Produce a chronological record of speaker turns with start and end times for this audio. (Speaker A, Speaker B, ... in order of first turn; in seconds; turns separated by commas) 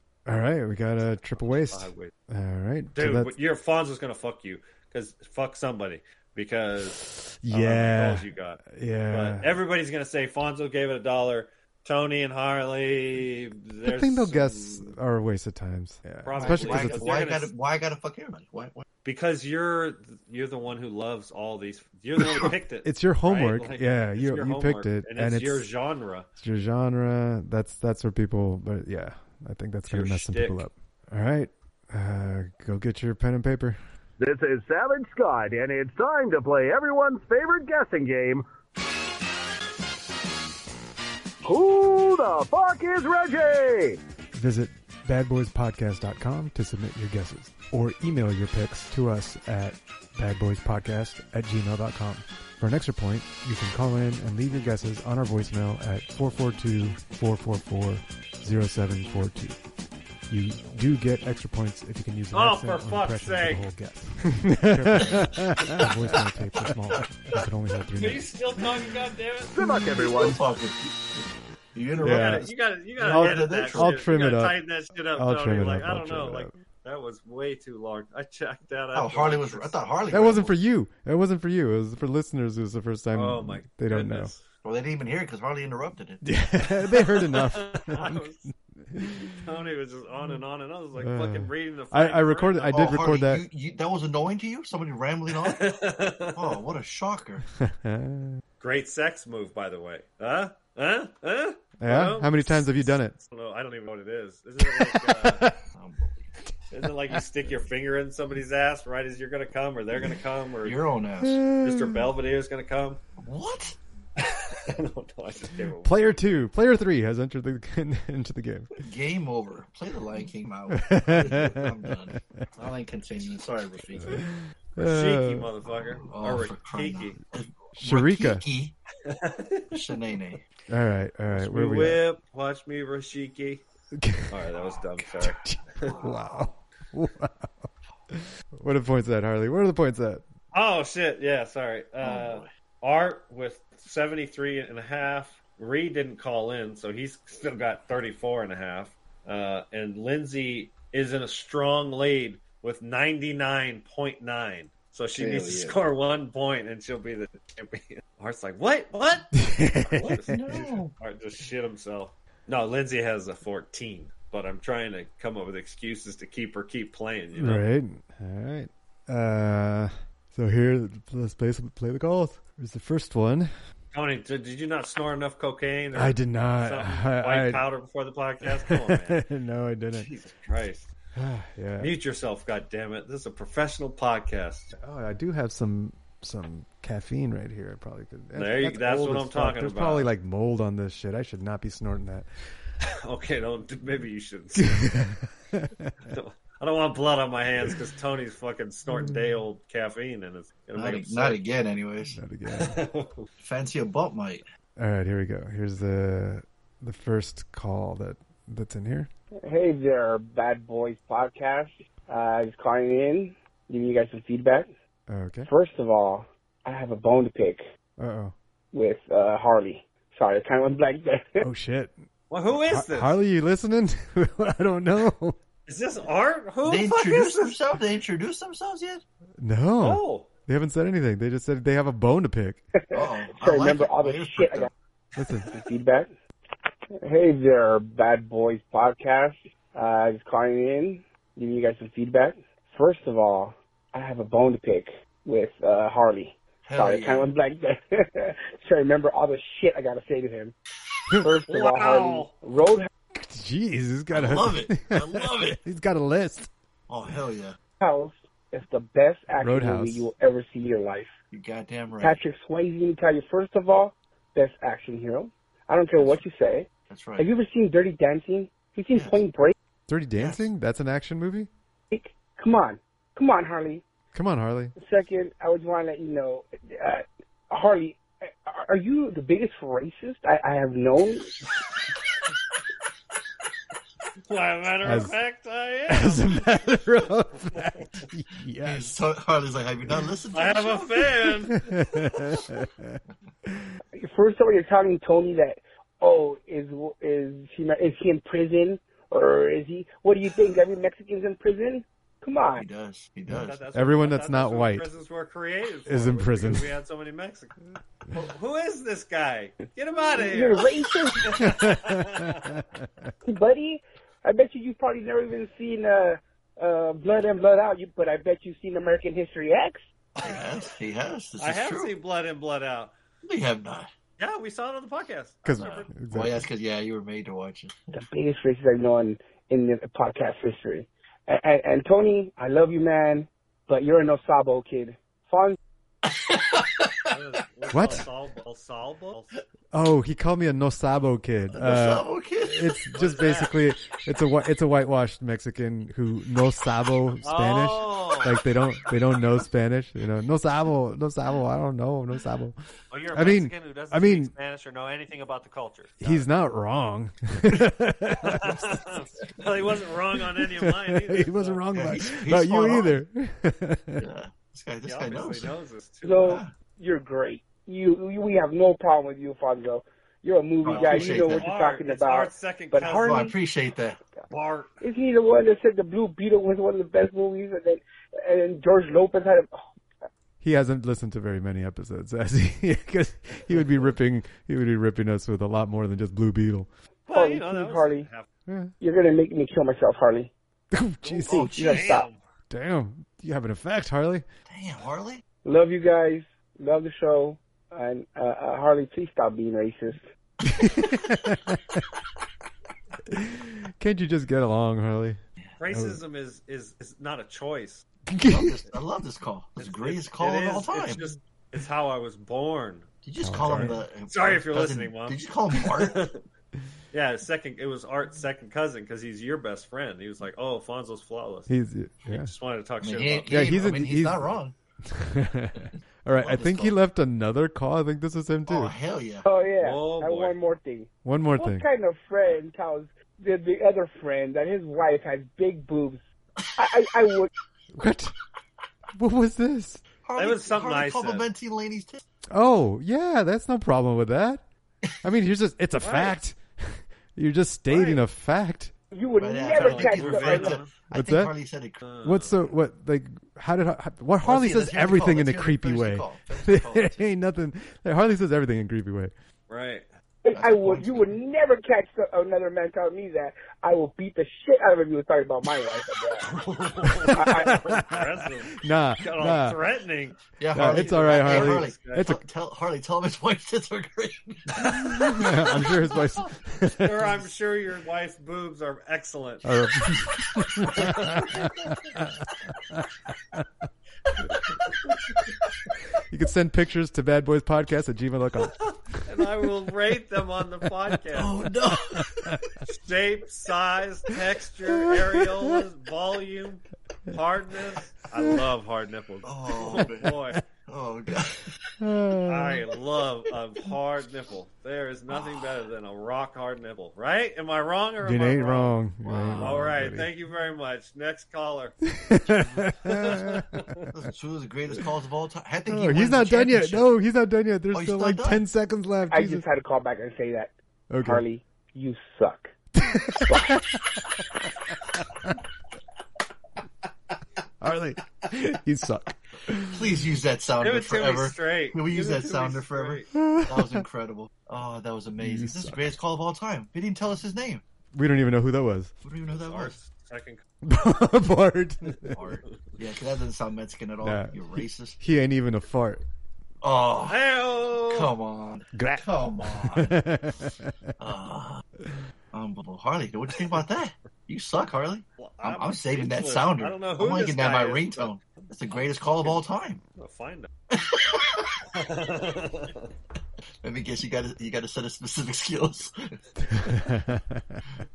Speaker A: 0.2-3.3, Speaker B: 1.0-2.1, Speaker B: 2.9-14.9, Speaker A: 7.4-9.5, Speaker A: 13.8-17.1, Speaker B: 16.2-17.5, Speaker C: 16.3-18.9, Speaker B: 19.0-26.3, Speaker A: 22.8-25.7, Speaker A: 26.4-33.8, Speaker B: 29.9-30.6, Speaker D: 34.2-38.4, Speaker D: 41.4-44.0, Speaker A: 44.3-59.6, Speaker A: 60.3-68.2, Speaker B: 62.3-63.6, Speaker B: 68.0-69.5, Speaker D: 69.5-70.4, Speaker C: 69.9-71.2, Speaker C: 71.7-74.0, Speaker A: 72.0-72.5, Speaker B: 72.0-80.3, Speaker A: 73.0-74.6, Speaker A: 75.1-76.5, Speaker C: 78.9-80.5, Speaker A: 80.1-84.3, Speaker B: 83.1-84.4, Speaker C: 84.6-86.2, Speaker A: 86.2-89.4, Speaker B: 86.9-88.5, Speaker B: 89.4-93.0, Speaker A: 91.0-93.4, Speaker C: 92.7-95.7, Speaker B: 95.3-96.6, Speaker C: 96.3-97.4, Speaker A: 97.6-98.4, Speaker B: 98.6-105.4, Speaker A: 101.8-103.2, Speaker A: 104.8-105.6, Speaker C: 105.7-106.3, Speaker B: 106.7-110.8, Speaker C: 110.6-111.4, Speaker A: 111.2-112.1, Speaker B: 111.6-113.0, Speaker C: 113.2-113.8, Speaker B: 114.2-116.3, Speaker A: 115.8-118.7, Speaker C: 118.8-124.2, Speaker A: 120.7-122.2, Speaker A: 124.0-125.5, Speaker B: 124.8-127.2, Speaker C: 125.7-128.8, Speaker A: 127.8-128.4, Speaker B: 129.1-129.8, Speaker C: 129.7-130.4, Speaker A: 130.7-132.0, Speaker B: 131.3-133.6, Speaker A: 134.0-134.3, Speaker B: 134.3-135.9, Speaker A: 135.2-137.5, Speaker C: 135.8-136.3, Speaker A: 138.1-140.2, Speaker B: 140.5-167.6, Speaker C: 142.0-142.5, Speaker C: 155.2-155.8, Speaker A: 159.4-160.7, Speaker C: 160.0-160.9, Speaker A: 167.3-173.5, Speaker B: 173.9-179.2, Speaker A: 175.9-177.6, Speaker A: 178.7-180.1, Speaker B: 179.9-180.9, Speaker A: 181.2-181.9, Speaker B: 181.8-184.7, Speaker A: 184.7-192.3, Speaker B: 188.3-190.1, Speaker B: 193.0-194.9, Speaker A: 194.6-195.9, Speaker B: 196.1-201.4, Speaker A: 198.9-199.2, Speaker C: 200.7-202.2, Speaker A: 202.1-202.8, Speaker B: 202.5-203.3, Speaker C: 203.4-204.4, Speaker A: 204.8-209.1, Speaker E: 209.4-214.7, Speaker A: 215.1-215.5, Speaker E: 215.4-217.6, Speaker A: 218.0-218.3, Speaker E: 218.7-221.5, Speaker A: 221.4-225.4, Speaker B: 222.3-223.2, Speaker B: 225.7-227.6, Speaker C: 226.6-229.0, Speaker A: 229.4-232.6, Speaker B: 229.8-230.3, Speaker E: 232.9-234.7, Speaker C: 232.9-234.7, Speaker A: 235.2-235.5, Speaker E: 235.5-236.1, Speaker E: 237.0-250.5, Speaker C: 246.6-247.3, Speaker E: 251.2-252.9, Speaker B: 251.5-252.3, Speaker A: 253.1-256.5, Speaker C: 254.1-255.6, Speaker C: 256.9-257.6, Speaker E: 257.8-261.1, Speaker A: 259.4-260.1, Speaker C: 261.3-262.2, Speaker E: 262.0-269.5, Speaker C: 265.9-266.2, Speaker C: 266.9-267.3, Speaker C: 268.9-269.2, Speaker A: 269.9-271.5, Speaker C: 270.2-270.5, Speaker E: 271.9-273.8, Speaker A: 274.1-274.7, Speaker E: 274.8-281.4, Speaker B: 284.3-286.8, Speaker A: 284.8-285.1, Speaker A: 285.9-289.0, Speaker C: 288.6-291.1, Speaker B: 290.3-291.6, Speaker A: 291.5-293.7, Speaker E: 294.0-302.6, Speaker C: 302.5-303.6, Speaker B: 303.3-307.5, Speaker A: 303.3-304.9, Speaker A: 305.9-306.7, Speaker B: 308.1-310.7, Speaker E: 310.1-311.3, Speaker B: 311.2-312.6, Speaker A: 311.4-313.1, Speaker E: 313.3-319.8, Speaker B: 320.2-320.4, Speaker C: 320.2-321.9, Speaker B: 321.4-322.9, Speaker C: 323.2-323.9, Speaker B: 324.2-325.9, Speaker A: 325.4-326.4, Speaker C: 325.6-327.8, Speaker E: 327.9-335.6, Speaker C: 336.1-337.1, Speaker B: 337.1-339.3, Speaker A: 337.7-338.1, Speaker A: 339.7-352.6, Speaker C: 341.5-342.7, Speaker B: 342.9-343.6, Speaker B: 347.2-348.4, Speaker B: 352.9-356.3, Speaker A: 353.1-354.3, Speaker A: 356.0-358.8, Speaker B: 358.3-361.9, Speaker A: 360.4-364.0, Speaker C: 361.7-363.0, Speaker C: 364.0-365.5, Speaker B: 364.8-366.4, Speaker E: 366.0-373.3, Speaker C: 366.2-366.5, Speaker C: 370.6-371.5, Speaker B: 370.7-373.3, Speaker C: 373.0-374.0, Speaker B: 374.3-374.8, Speaker E: 374.8-379.6, Speaker A: 380.4-386.7, Speaker B: 387.1-388.3, Speaker E: 387.1-388.1, Speaker A: 388.5-388.7, Speaker E: 388.8-390.3, Speaker A: 390.7-391.4, Speaker B: 391.0-392.2, Speaker C: 391.3-391.9, Speaker E: 391.3-392.1, Speaker A: 392.5-394.2, Speaker C: 394.5-395.2, Speaker E: 395.4-400.0, Speaker A: 400.4-401.8, Speaker A: 403.1-406.0, Speaker B: 405.6-407.8, Speaker A: 408.1-408.5, Speaker C: 408.2-411.0, Speaker B: 409.6-412.9, Speaker C: 413.0-416.0, Speaker A: 413.2-413.8, Speaker B: 414.1-416.2, Speaker B: 416.9-421.5, Speaker A: 421.5-422.3, Speaker B: 422.1-423.6, Speaker C: 422.8-424.5, Speaker A: 423.3-424.3, Speaker A: 424.9-428.7, Speaker C: 426.2-426.8, Speaker C: 428.5-429.2, Speaker E: 429.2-436.0, Speaker B: 429.6-430.4, Speaker A: 431.0-431.6, Speaker E: 436.6-437.3, Speaker A: 437.7-438.1, Speaker A: 439.0-439.8, Speaker C: 440.0-442.1, Speaker B: 440.1-441.3, Speaker A: 442.3-444.4, Speaker A: 445.0-448.7, Speaker B: 445.8-446.2, Speaker B: 447.7-448.0, Speaker E: 448.9-450.6, Speaker C: 449.2-451.8, Speaker B: 449.6-450.7, Speaker A: 450.9-451.3, Speaker B: 451.8-452.4, Speaker A: 452.0-459.1, Speaker C: 454.2-457.0, Speaker B: 459.5-459.9, Speaker E: 460.2-466.3, Speaker C: 460.3-461.1, Speaker B: 466.2-472.2, Speaker A: 467.0-468.1, Speaker E: 467.1-467.6, Speaker A: 468.6-469.6, Speaker C: 470.4-475.2, Speaker A: 470.5-472.2, Speaker A: 474.6-477.1, Speaker B: 476.8-479.5, Speaker A: 479.4-482.1, Speaker B: 480.7-481.5, Speaker A: 486.1-488.6, Speaker B: 489.1-491.4, Speaker C: 491.1-492.1, Speaker A: 491.7-492.4, Speaker B: 492.7-500.4, Speaker C: 499.2-500.1, Speaker C: 500.7-501.6, Speaker A: 501.8-502.6, Speaker B: 502.2-508.8, Speaker C: 505.1-505.5, Speaker A: 508.0-510.1, Speaker C: 509.0-509.7, Speaker B: 509.3-511.8, Speaker A: 512.0-513.7, Speaker C: 512.2-512.8, Speaker B: 512.9-513.3, Speaker C: 513.8-516.9, Speaker A: 515.7-519.4, Speaker C: 517.7-518.4, Speaker E: 519.1-522.5, Speaker A: 520.9-521.2, Speaker A: 522.8-523.7, Speaker E: 523.2-523.5, Speaker A: 527.6-530.0, Speaker C: 529.7-537.6, Speaker B: 530.6-533.1, Speaker A: 533.1-533.8, Speaker A: 535.2-535.9, Speaker A: 537.9-538.9, Speaker C: 539.0-539.8, Speaker B: 539.3-540.4, Speaker A: 540.6-542.2, Speaker C: 542.1-545.0, Speaker A: 544.0-546.0, Speaker C: 546.6-550.0, Speaker B: 547.1-548.1, Speaker A: 548.7-550.7, Speaker C: 551.0-551.6, Speaker C: 552.3-559.8, Speaker B: 555.2-558.4, Speaker B: 559.1-559.4, Speaker B: 559.9-560.5, Speaker C: 560.7-561.6, Speaker B: 561.7-562.9, Speaker C: 563.6-566.1, Speaker A: 566.4-567.6